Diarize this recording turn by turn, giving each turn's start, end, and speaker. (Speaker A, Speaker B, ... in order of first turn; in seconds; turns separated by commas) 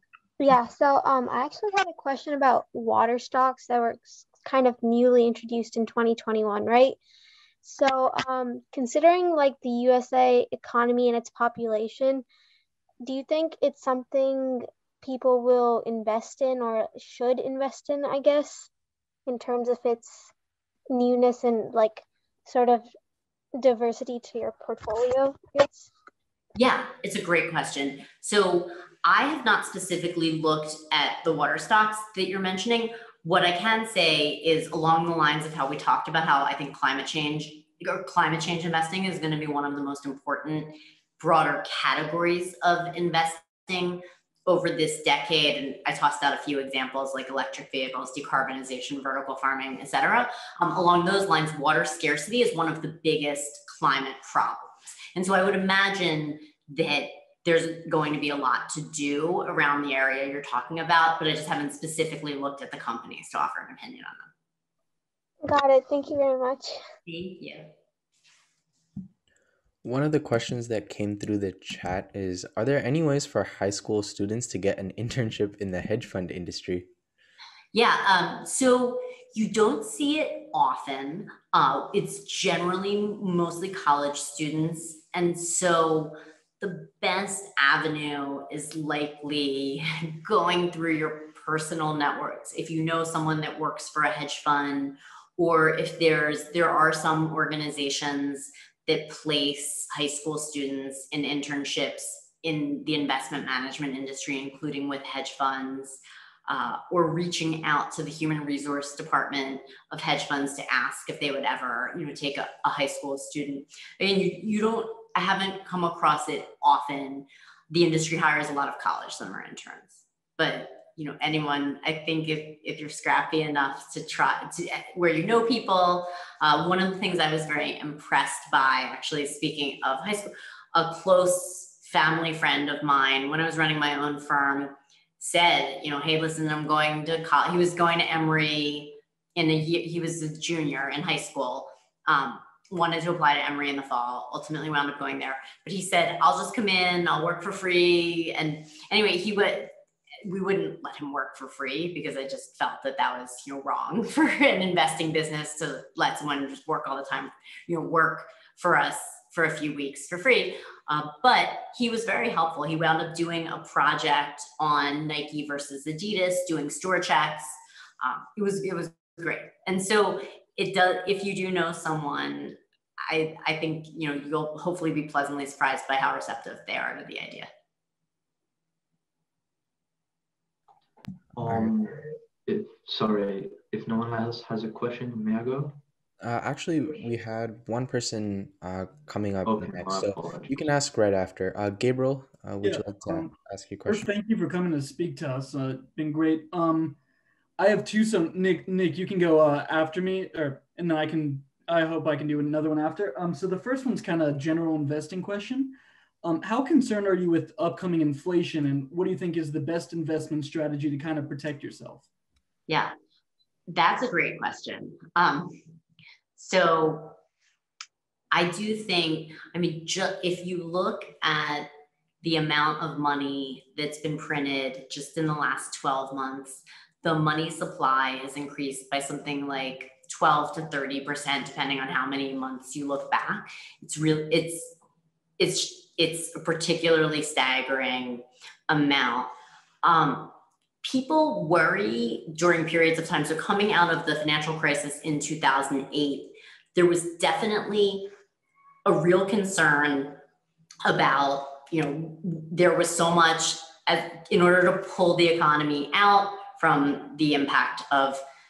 Speaker A: 0.4-7.0, Speaker A: 7.6-12.2, Speaker A: 13.0-18.7, Speaker A: 19.3-20.3, Speaker A: 20.9-22.9, Speaker A: 23.6-25.9, Speaker B: 26.6-64.3, Speaker A: 65.4-66.8, Speaker B: 67.1-67.7, Speaker C: 69.8-76.9, Speaker B: 77.7-149.7, Speaker B: 150.2-177.5, Speaker D: 181.3-185.8, Speaker C: 181.4-181.8, Speaker C: 186.2-194.1, Speaker D: 189.5-190.5, Speaker E: 192.6-193.3, Speaker E: 193.9-197.0, Speaker E: 197.6-212.1, Speaker B: 212.7-212.9, Speaker B: 213.7-215.5, Speaker B: 216.4-217.2, Speaker B: 218.3-221.7, Speaker B: 222.2-234.8, Speaker B: 235.4-239.3, Speaker B: 239.8-248.1, Speaker B: 248.9-250.2, Speaker B: 250.8-258.2